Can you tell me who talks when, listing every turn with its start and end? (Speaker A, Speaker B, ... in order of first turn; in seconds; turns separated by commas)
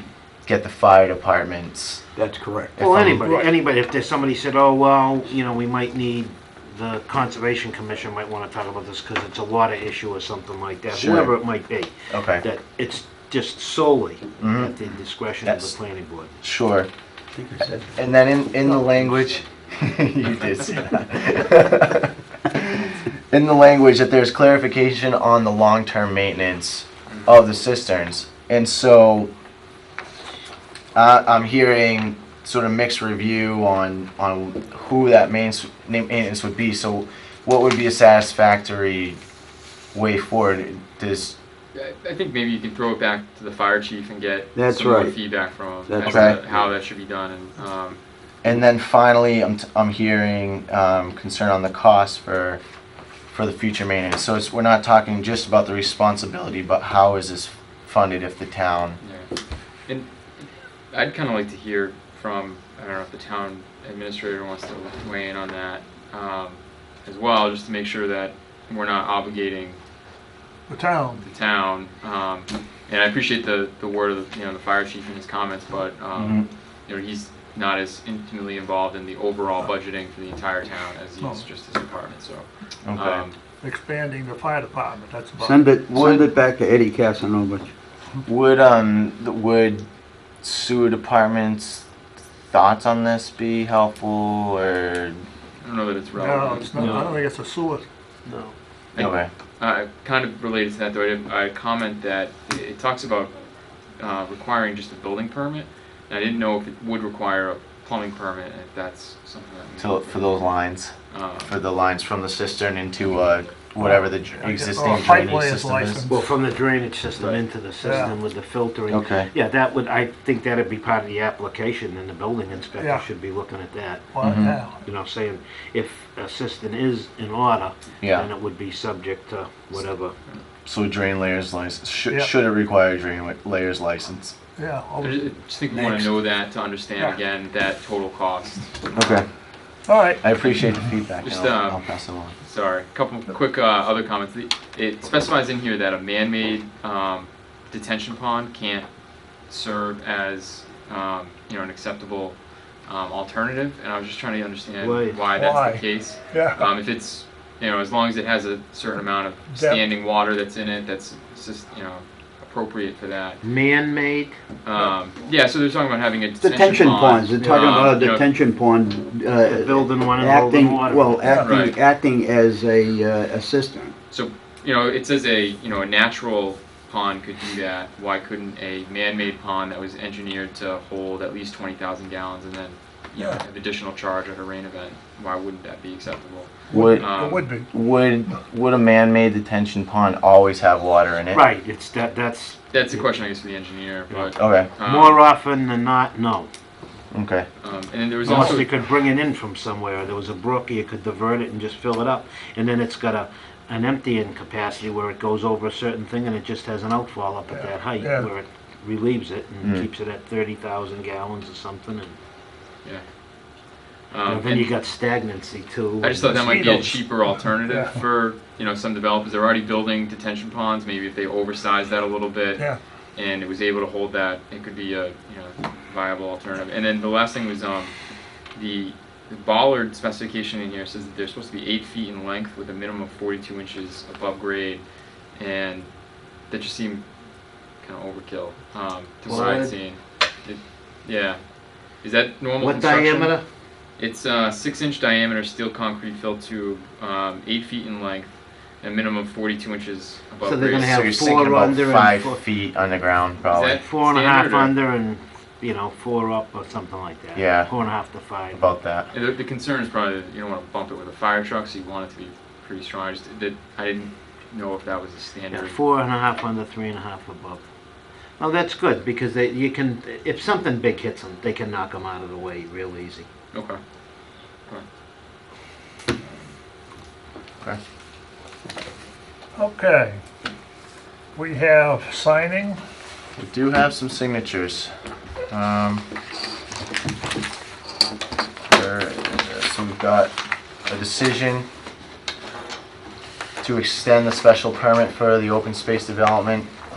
Speaker A: 0.4-2.0, Speaker B: 2.1-2.7, Speaker A: 2.8-3.2, Speaker C: 2.8-16.3, Speaker A: 10.9-11.3, Speaker A: 12.1-12.4, Speaker A: 14.4-14.7, Speaker A: 15.4-15.7, Speaker A: 16.4-16.9, Speaker B: 17.3-17.9, Speaker A: 17.9-29.3, Speaker C: 18.6-19.3, Speaker A: 30.9-39.2, Speaker A: 39.9-41.3, Speaker D: 41.7-48.0, Speaker B: 44.5-45.3, Speaker B: 45.9-46.7, Speaker A: 46.0-46.4, Speaker A: 48.4-52.6, Speaker A: 53.3-59.0, Speaker D: 59.0-59.3, Speaker D: 59.9-69.8, Speaker E: 70.7-71.2, Speaker D: 71.2-83.4, Speaker A: 76.2-76.5, Speaker A: 82.8-83.2, Speaker E: 83.6-85.7, Speaker B: 85.4-87.7, Speaker A: 85.9-86.2, Speaker A: 88.2-89.9, Speaker A: 90.4-91.8, Speaker A: 92.5-95.2, Speaker D: 95.6-97.1, Speaker E: 96.2-97.8, Speaker C: 96.8-97.1, Speaker C: 98.2-98.5, Speaker D: 98.9-103.4, Speaker A: 99.0-99.3, Speaker D: 104.0-110.4, Speaker A: 109.8-116.1, Speaker D: 111.1-111.5, Speaker E: 113.8-116.2, Speaker C: 116.1-124.2, Speaker E: 117.8-118.1, Speaker A: 118.9-119.3, Speaker E: 122.8-123.0, Speaker E: 124.1-124.8, Speaker A: 124.2-124.6, Speaker C: 124.7-130.1, Speaker A: 128.0-128.3, Speaker A: 130.6-134.3, Speaker E: 134.6-136.1, Speaker D: 135.0-138.8, Speaker A: 138.9-139.3, Speaker E: 139.9-140.2, Speaker A: 140.2-142.3, Speaker D: 140.3-140.6, Speaker D: 141.2-148.9, Speaker D: 149.5-163.4, Speaker C: 154.8-155.2, Speaker E: 155.3-156.7, Speaker E: 159.5-159.8, Speaker C: 163.4-164.3, Speaker D: 164.6-168.3, Speaker B: 166.4-173.9, Speaker C: 167.5-167.9, Speaker C: 169.4-171.3, Speaker E: 171.3-171.6, Speaker D: 171.3-171.8, Speaker D: 174.1-187.5, Speaker E: 186.7-187.7, Speaker A: 186.7-191.4, Speaker C: 191.3-193.1, Speaker D: 192.7-195.2, Speaker C: 194.1-196.5, Speaker A: 194.4-194.7, Speaker A: 197.1-197.5, Speaker D: 197.6-198.7, Speaker C: 198.2-212.1, Speaker E: 207.5-208.3, Speaker A: 209.6-209.9, Speaker D: 214.1-214.7, Speaker C: 214.3-216.7, Speaker D: 216.0-227.9, Speaker E: 216.2-218.0, Speaker D: 228.5-234.8, Speaker D: 235.3-235.9, Speaker D: 236.5-237.0, Speaker D: 237.8-241.4, Speaker C: 239.2-239.8, Speaker D: 241.9-243.3, Speaker C: 242.6-243.4, Speaker D: 244.0-251.1, Speaker C: 250.4-252.4, Speaker A: 250.8-253.8, Speaker D: 253.5-254.8, Speaker C: 253.8-258.6, Speaker A: 257.3-257.7, Speaker A: 258.5-259.1, Speaker D: 259.1-265.8, Speaker C: 265.5-267.6, Speaker C: 268.4-273.3, Speaker D: 273.5-273.8, Speaker E: 279.5-280.2, Speaker E: 281.4-282.8, Speaker A: 283.4-284.9, Speaker A: 285.5-286.1, Speaker A: 288.6-290.3, Speaker A: 290.9-291.7, Speaker A: 293.6-296.7